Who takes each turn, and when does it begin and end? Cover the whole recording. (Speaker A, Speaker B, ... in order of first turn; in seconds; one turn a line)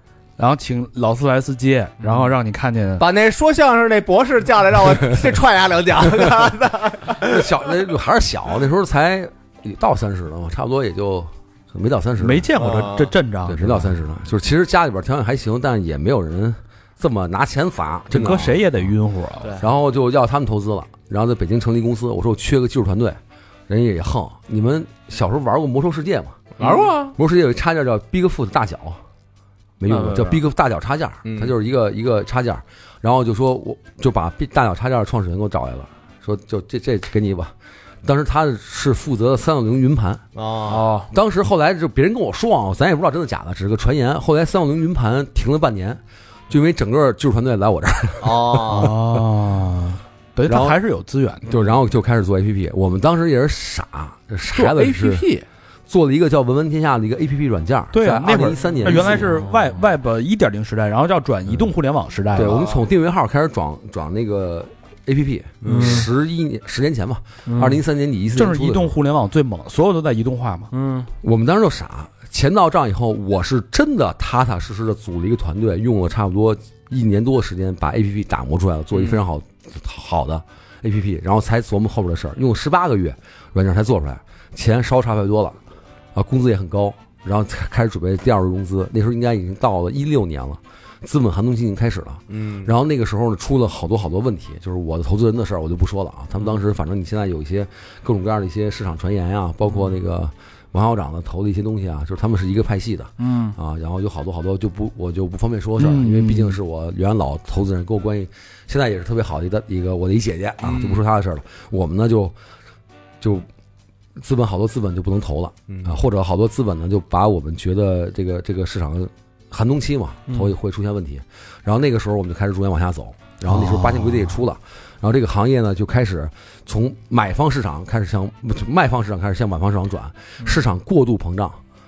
Speaker A: 0.4-3.0
Speaker B: 2.0-2.4
Speaker C: 3.0-7.4
Speaker D: 7.2-12.5
Speaker A: 12.2-13.9
Speaker C: 12.5-13.2
Speaker D: 13.5-18.9
Speaker A: 18.1-19.6
Speaker D: 19.6-23.2
Speaker D: 23.7-26.6
Speaker C: 26.6-26.9
Speaker B: 26.6-27.2
Speaker D: 27.1-29.0
Speaker D: 29.8-40.2
Speaker B: 29.9-30.4
Speaker C: 31.3-31.5
Speaker C: 40.4-40.9
Speaker B: 40.7-41.1
Speaker D: 41.1-49.0
Speaker C: 48.2-48.9
Speaker A: 48.7-51.5
Speaker D: 50.5-50.8
Speaker D: 51.5-55.3
Speaker B: 54.5-55.5
Speaker D: 55.9-59.5
Speaker A: 57.9-62.7
Speaker D: 62.3-68.9
Speaker C: 65.6-66.1
Speaker B: 65.6-66.1
Speaker B: 67.5-67.8
Speaker A: 68.3-70.7
Speaker B: 70.7-71.1
Speaker D: 71.2-85.6
Speaker D: 86.2-112.3
Speaker C: 92.3-92.7
Speaker B: 103.2-103.6
Speaker A: 105.8-106.6
Speaker C: 110.6-111.0
Speaker D: 113.2-113.5
Speaker D: 114.2-131.6
Speaker C: 115.7-116.0
Speaker B: 120.3-120.5
Speaker A: 123.5-124.4